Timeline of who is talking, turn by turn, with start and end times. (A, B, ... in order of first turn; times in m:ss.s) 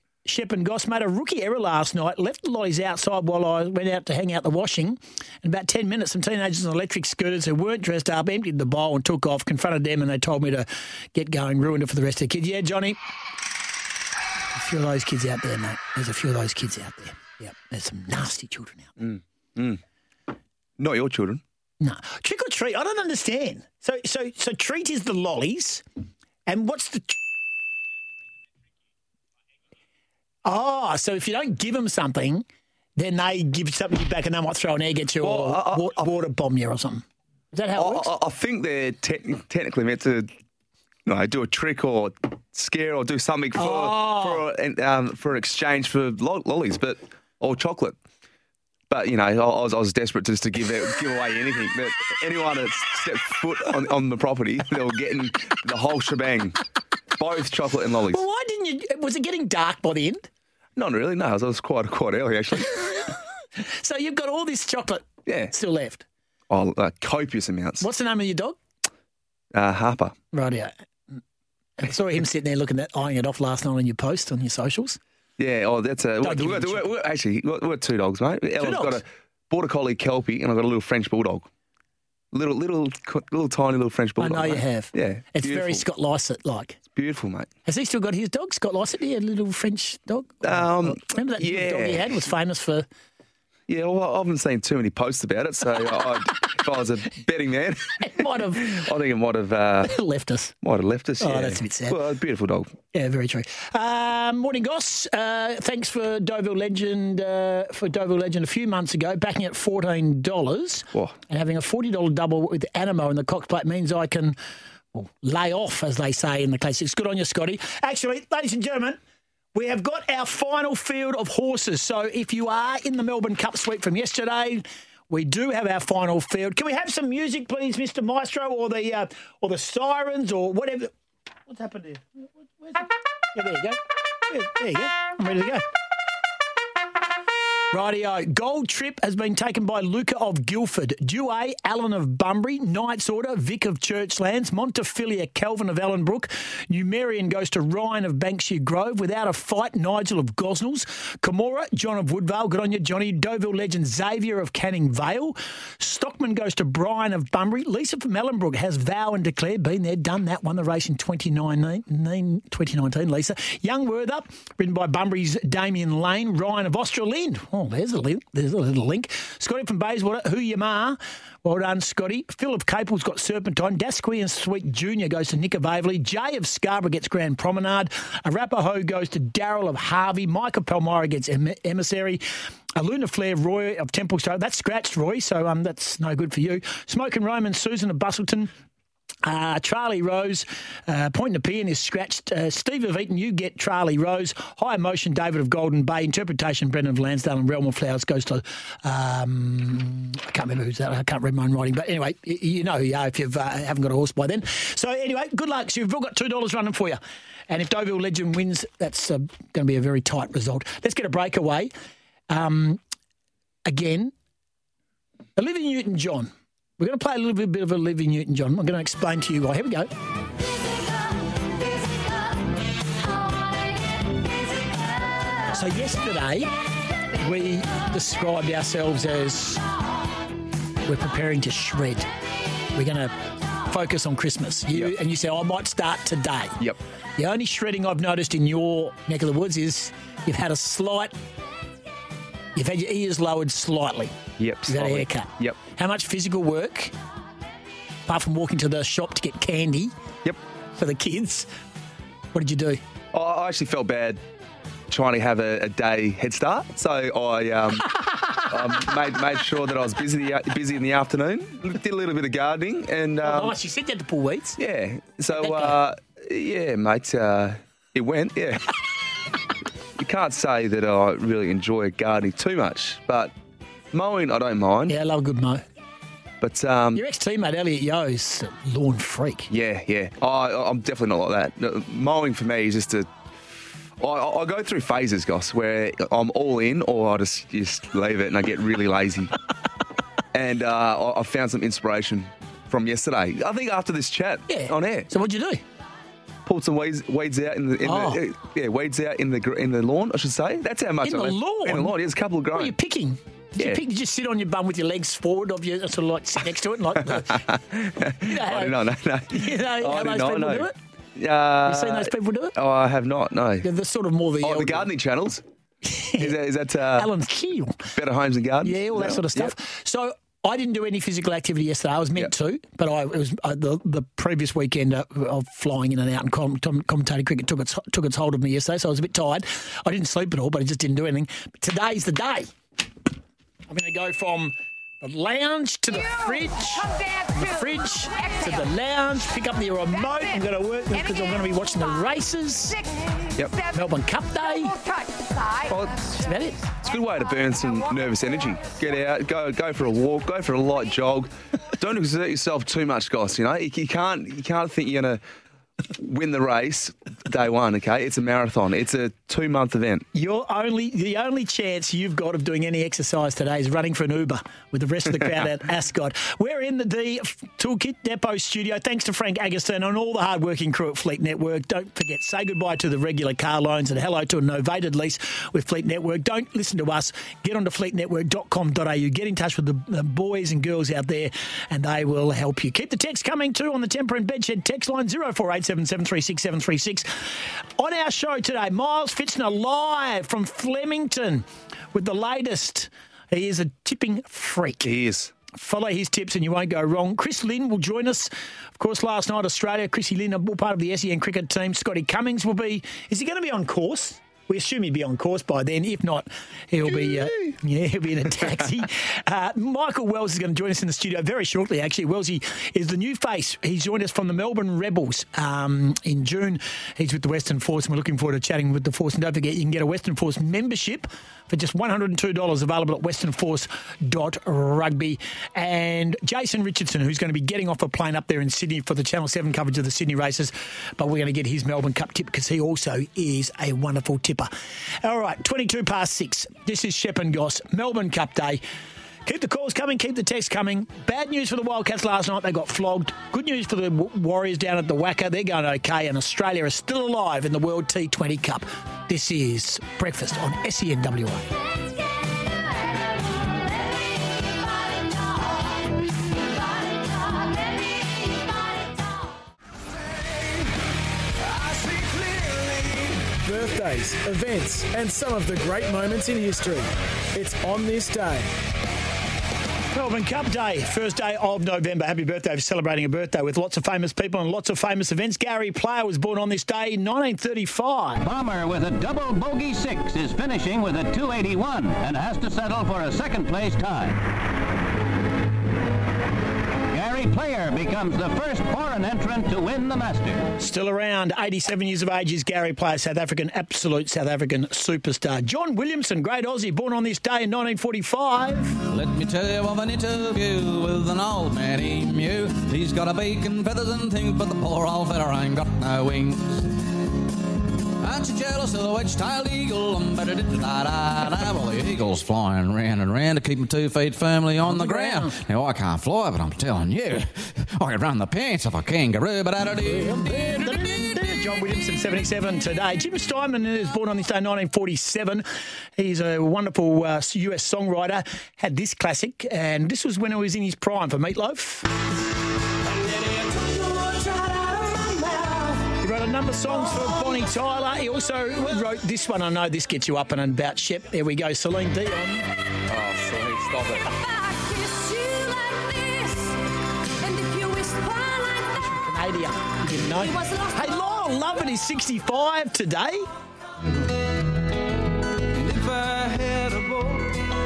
0:00.2-0:13.0 A
0:14.6-0:18.9 A
0:19.0-0:19.8 B
0:20.8-0:21.4 B
0:21.8-0:25.8 A
0:26.5-0:27.2 A
0:30.4-0:32.4 A
0:33.0-0:38.1 A
0:35.2-0:36.1 B
0:37.8-0:40.3 B
0:41.1-0:48.0 B
0:43.6-0:44.4 A
0:48.9-0:56.6 B
0:57.2-0:58.2 B
0:58.1-1:00.3 A
1:00.8-1:02.9 B
1:03.6-1:06.0 A
1:05.3-1:05.5 B
1:06.5-1:07.9 B
1:07.8-1:08.6 A
1:09.5-1:10.2 B
1:10.3-1:11.2 A
1:11.8-1:15.0 A
1:15.4-1:21.5 B
1:16.2-1:16.9 A
1:18.6-1:19.0 A
1:22.3-1:25.8 B
1:24.2-1:26.8 A
1:27.0-1:27.5 B
1:27.6-1:32.9 A
1:30.4-1:32.2 B
1:33.7-1:39.9 B
1:38.0-1:38.8 A
1:39.8-1:40.5 A
1:40.6-1:42.7 B
1:41.2-1:42.0 A
1:42.9-1:54.4 A
1:54.9-1:59.0 A
1:59.5-2:10.9 A
2:11.5-2:15.6 A
2:17.7-3:02.2 A
3:02.8-3:08.5 A
3:09.2-3:31.7 A
3:32.3-3:32.8 A
3:33.7-3:34.1 A
3:35.4-3:39.9 A
3:45.5-3:46.5 A
3:47.2-3:49.6 A
3:50.9-3:52.1 A
3:52.7-3:56.6 A
3:57.2-4:01.1 A
4:02.6-4:04.2 A
4:04.4-4:05.6 B
4:04.7-4:06.9 A
4:08.1-4:09.9 A
4:10.8-4:11.5 A
4:12.3-4:12.8 A
4:13.1-4:14.2 B
4:14.9-4:17.9 B
4:18.4-4:23.6 B
4:23.2-4:24.6 A
4:24.6-4:28.6 B
4:25.4-4:25.8 A
4:30.0-4:33.3 B
4:33.9-4:35.0 B
4:34.9-4:35.6 A
4:36.4-4:37.0 B
4:37.0-4:39.5 A
4:39.5-4:43.1 B
4:44.0-4:49.3 B
4:50.3-4:55.1 B
4:54.5-4:55.6 A
4:56.4-5:02.7 B
4:57.8-4:58.2 A
5:01.0-5:02.0 A
5:02.5-5:07.4 A
5:07.1-5:13.7 B
5:08.2-5:08.8 A
5:09.3-5:10.8 A
5:11.6-5:12.6 A
5:13.6-5:14.9 A
5:14.4-5:15.4 B
5:15.8-5:16.4 A
5:16.2-5:17.1 B
5:16.9-5:17.9 A
5:18.0-5:19.5 B
5:18.6-5:32.5 A
5:33.7-5:42.8 A
5:43.7-5:44.8 A
5:45.7-5:46.1 B
5:46.2-5:46.7 A
5:46.8-5:55.2 B
5:56.0-6:00.1 B
6:00.1-6:27.1 A
6:27.8-6:34.9 A
6:34.8-6:35.3 B
6:35.5-7:14.5 A
7:15.0-7:18.6 A
7:19.3-7:31.5 A
7:41.7-7:48.5 C
7:49.9-7:58.2 A
7:58.2-8:04.2 D
8:06.9-8:10.4 D
8:10.6-8:18.8 A
8:18.9-8:26.7 E
8:28.0-8:40.6 E
8:34.7-8:35.3 A
8:39.9-8:45.5 A
8:46.0-8:51.9 A
8:53.7-9:02.5 A
9:02.9-9:04.1 B
9:08.7-9:13.3 A
9:15.7-9:16.8 E